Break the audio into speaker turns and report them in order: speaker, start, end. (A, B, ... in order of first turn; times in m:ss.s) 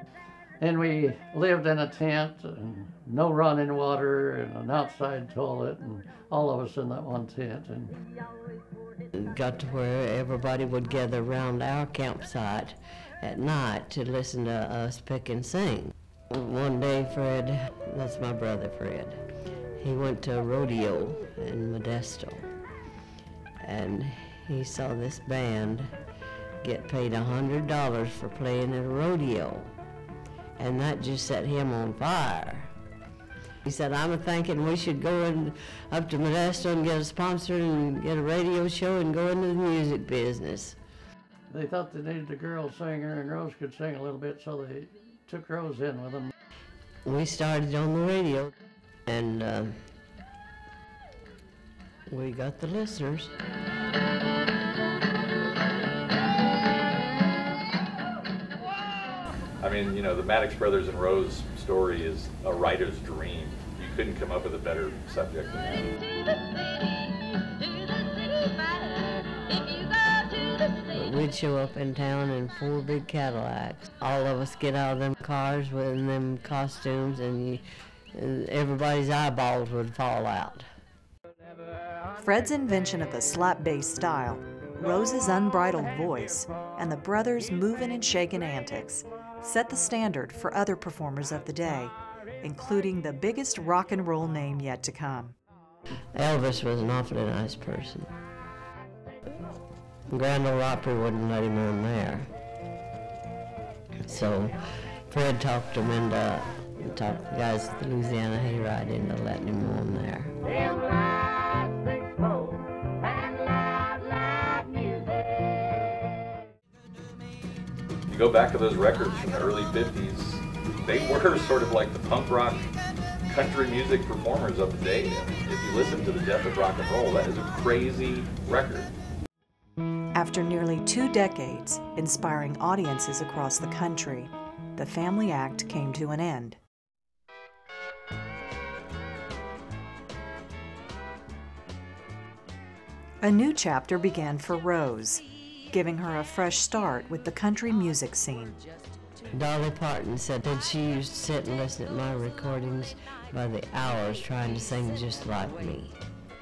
0:00.6-0:08.0 A
0:09.1-0:19.2 B
0:19.8-0:22.5 B
0:23.6-0:25.9 B
0:26.6-0:29.7 B
0:30.6-0:32.7 B
0:33.6-0:40.8 B
0:41.5-0:46.3 A
0:47.0-0:48.5 B
0:49.1-0:49.8 B
0:52.1-0:53.3 B
0:59.6-1:06.0 C
1:10.9-1:17.6 B
1:18.2-1:20.7 B
1:22.2-1:35.4 D
1:36.1-1:38.1 B
1:40.1-1:42.3 B
1:44.0-1:44.6 B
1:45.1-1:50.3 B
1:58.1-2:02.7 C
2:03.3-2:08.9 C
2:10.1-2:16.6 D
2:23.2-2:28.6 D
2:29.3-2:36.0 B